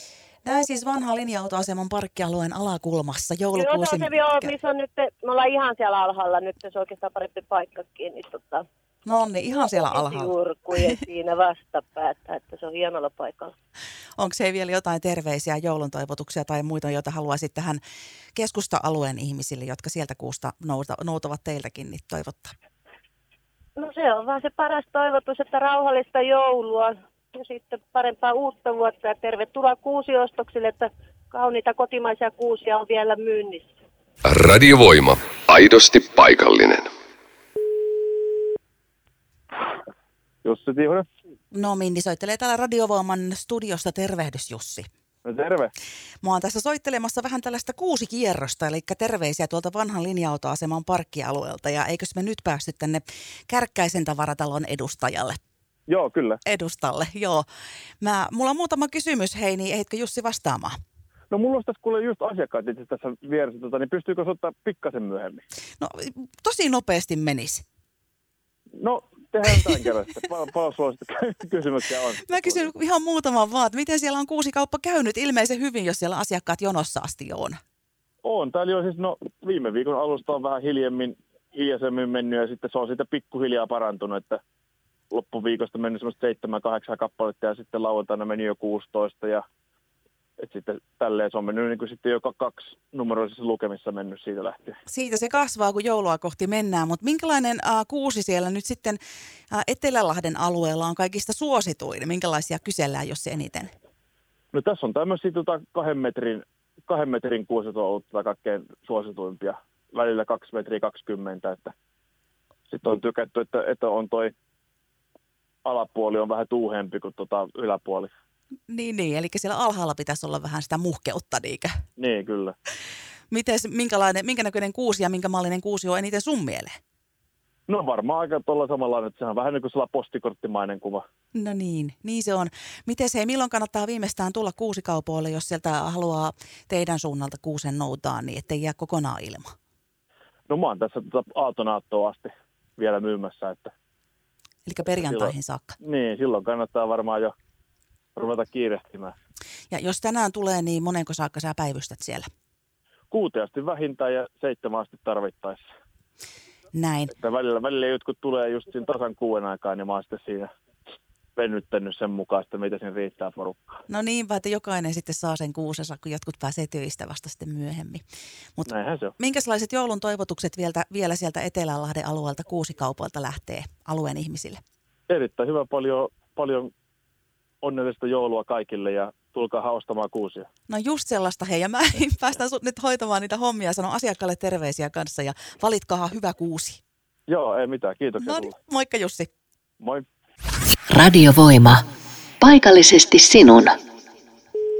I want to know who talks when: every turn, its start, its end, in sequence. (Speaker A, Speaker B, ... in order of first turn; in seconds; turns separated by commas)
Speaker A: 0.4-4.5, Speaker B: 3.5-8.6, Speaker A: 9.1-10.3, Speaker B: 9.4-13.5, Speaker A: 14.2-17.8, Speaker A: 18.4-22.5, Speaker B: 23.8-33.7, Speaker C: 34.2-36.9, Speaker D: 40.4-41.0, Speaker A: 41.5-44.9, Speaker D: 45.2-45.7, Speaker A: 46.2-55.4, Speaker D: 55.9-56.4, Speaker A: 56.4-57.5, Speaker A: 58.0-60.7, Speaker D: 61.3-65.4, Speaker A: 65.8-67.6, Speaker D: 68.8-72.7, Speaker A: 72.2-77.6, Speaker D: 78.2-84.4, Speaker D: 85.1-89.4, Speaker D: 90.4-94.8, Speaker A: 94.9-99.0, Speaker A: 99.5-103.7, Speaker D: 104.5-111.7, Speaker D: 112.7-114.3, Speaker D: 115.6-118.1, Speaker A: 118.7-121.7, Speaker D: 122.0-122.5, Speaker A: 123.3-126.7, Speaker D: 127.7-131.0, Speaker A: 131.3-139.5, Speaker D: 140.5-143.7, Speaker A: 144.7-145.8, Speaker D: 145.0-147.3, Speaker D: 148.2-149.1, Speaker A: 149.7-152.3, Speaker D: 153.1-155.6, Speaker A: 156.7-157.1, Speaker D: 157.1-160.5, Speaker D: 161.3-163.6, Speaker A: 163.9-168.0, Speaker A: 168.6-174.6, Speaker D: 168.7-169.1, Speaker D: 175.1-176.7, Speaker D: 177.6-180.5, Speaker A: 180.7-186.8, Speaker D: 187.3-188.5, Speaker A: 188.2-189.3, Speaker E: 190.9-191.8, Speaker E: 192.4-193.8